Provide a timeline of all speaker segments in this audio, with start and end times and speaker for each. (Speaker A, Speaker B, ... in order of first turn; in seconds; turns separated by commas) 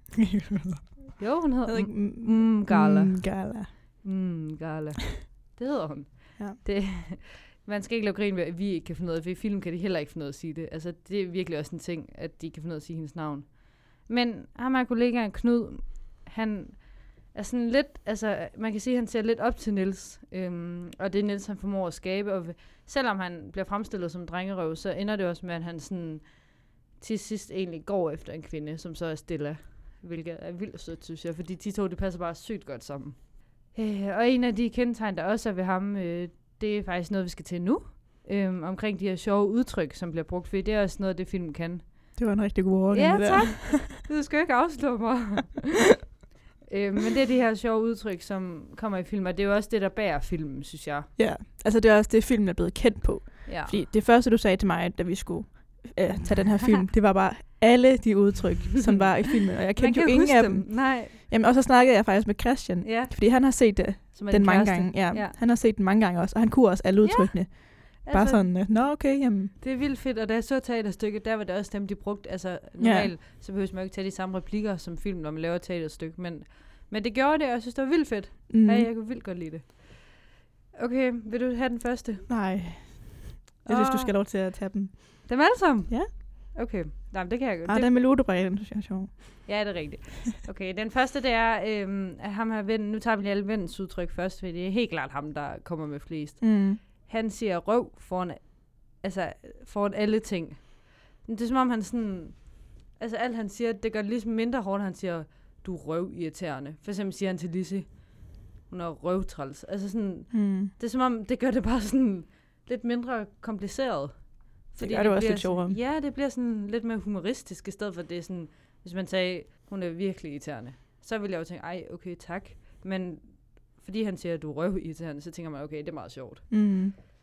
Speaker A: 0.1-3.7, Speaker B: 1.2-42.2, Speaker A: 42.1-44.0, Speaker B: 42.9-45.8, Speaker B: 46.7-51.1, Speaker A: 51.1-69.5, Speaker B: 53.5-53.8, Speaker B: 59.7-61.2, Speaker B: 62.8-65.3, Speaker B: 67.0-69.0, Speaker B: 69.6-82.3, Speaker A: 72.8-73.1, Speaker A: 78.5-78.9, Speaker A: 82.3-86.1, Speaker B: 83.6-84.2, Speaker B: 85.2-87.9, Speaker A: 87.7-89.7, Speaker B: 89.5-126.6, Speaker A: 96.4-96.8, Speaker A: 110.3-110.7, Speaker A: 114.8-115.8, Speaker A: 126.5-127.0